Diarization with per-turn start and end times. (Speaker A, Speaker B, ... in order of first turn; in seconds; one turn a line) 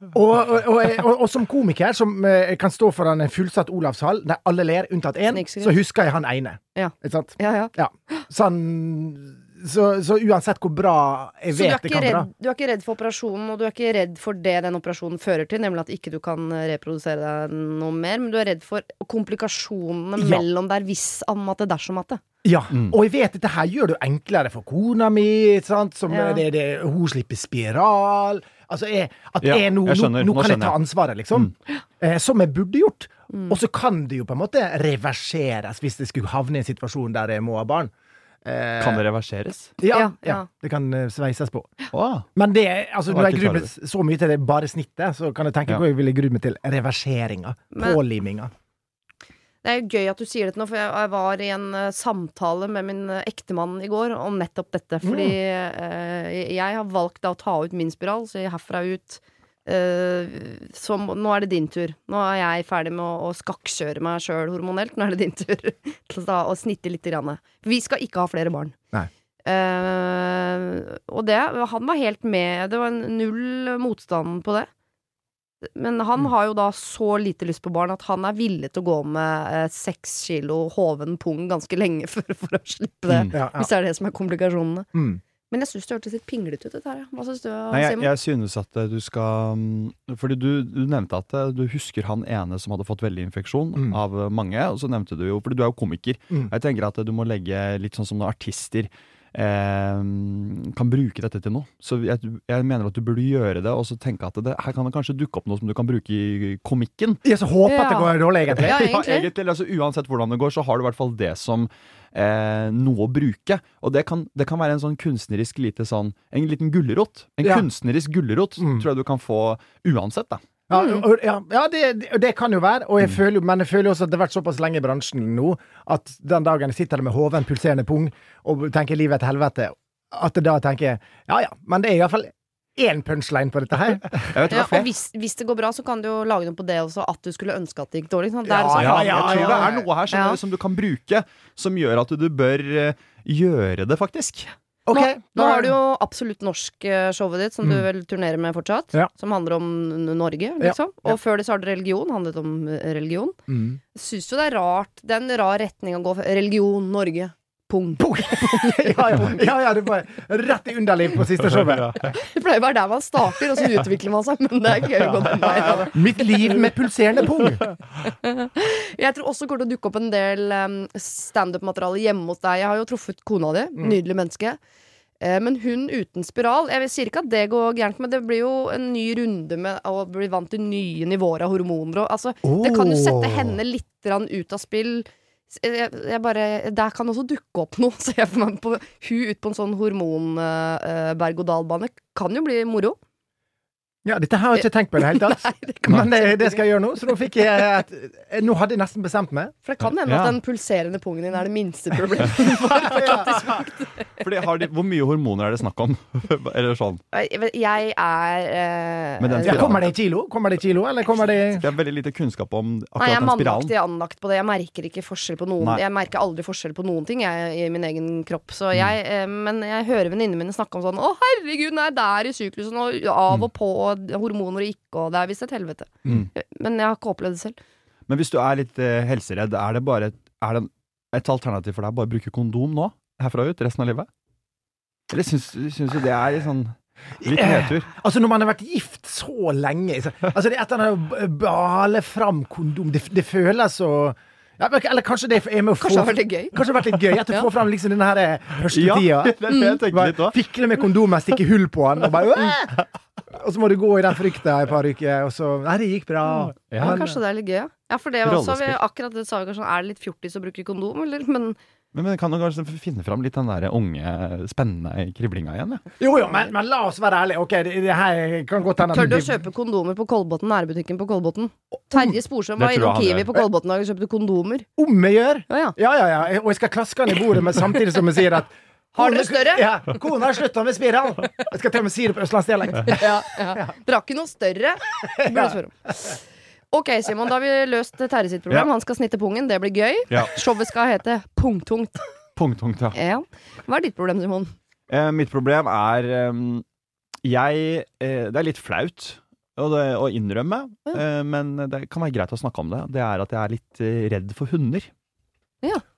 Speaker A: 0.1-12.3
Speaker B: 5.3-5.8
Speaker B: 6.8-8.2
Speaker B: 11.5-22.2
Speaker A: 20.2-20.4
Speaker A: 22.4-37.9
Speaker C: 22.7-23.0
Speaker B: 26.1-26.4
Speaker C: 29.4-30.8
Speaker B: 33.3-33.6
Speaker A: 38.4-39.0
Speaker C: 38.8-39.7
Speaker A: 39.8-41.7
Speaker B: 39.9-40.5
Speaker C: 41.9-42.2
Speaker A: 42.4-48.5
Speaker C: 43.1-43.7
Speaker B: 47.7-48.0
Speaker B: 49.6-68.8
Speaker A: 55.0-55.4
Speaker B: 69.5-74.7
Speaker B: 75.7-84.9
Speaker C: 83.1-83.3
Speaker A: 83.3-83.7
Speaker A: 84.9-85.2
Speaker B: 85.5-88.1
Speaker C: 87.7-107.2
Speaker A: 107.2-108.8
Speaker B: 107.7-109.3
Speaker C: 108.6-120.4
Speaker A: 118.6-118.8
Speaker A: 120.7-134.4
Speaker C: 134.2-134.9
Speaker B: 134.5-140.4
Speaker A: 138.4-139.9
Speaker C: 138.7-144.5
Speaker A: 144.9-145.8
Speaker B: 144.9-153.4
Speaker A: 150.6-151.2
Speaker A: 153.5-153.8
Speaker B: 153.9-159.4
Speaker A: 158.0-162.1
Speaker C: 161.6-162.0
Speaker B: 162.0-165.9
Speaker A: 165.8-167.8
Speaker B: 168.2-174.6
Speaker B: 175.2-193.0
Speaker A: 182.4-183.6
Speaker A: 194.1-199.5
Speaker B: 195.1-196.6
Speaker B: 199.7-203.9
Speaker C: 199.8-200.4
Speaker C: 203.0-203.5
Speaker C: 204.2-207.0
Speaker B: 207.1-209.8
Speaker C: 209.2-209.9
Speaker A: 209.4-211.7
Speaker C: 211.6-213.7
Speaker B: 213.0-227.6
Speaker C: 228.1-234.1
Speaker C: 235.1-237.9
Speaker A: 237.2-257.1
Speaker B: 245.8-246.6
Speaker C: 248.7-250.4
Speaker B: 249.5-249.8
Speaker C: 256.7-257.2
Speaker B: 256.8-261.6
Speaker C: 258.2-258.8
Speaker C: 261.9-265.9
Speaker A: 266.0-269.4
Speaker B: 268.9-274.7
Speaker C: 272.6-273.5
Speaker A: 274.8-283.7
Speaker B: 275.5-275.8
Speaker B: 278.9-279.7
Speaker B: 282.9-286.2
Speaker A: 285.1-285.6
Speaker B: 286.7-292.1
Speaker C: 290.1-290.4
Speaker C: 292.4-293.0
Speaker B: 292.9-294.5
Speaker C: 294.9-296.6
Speaker C: 297.2-304.9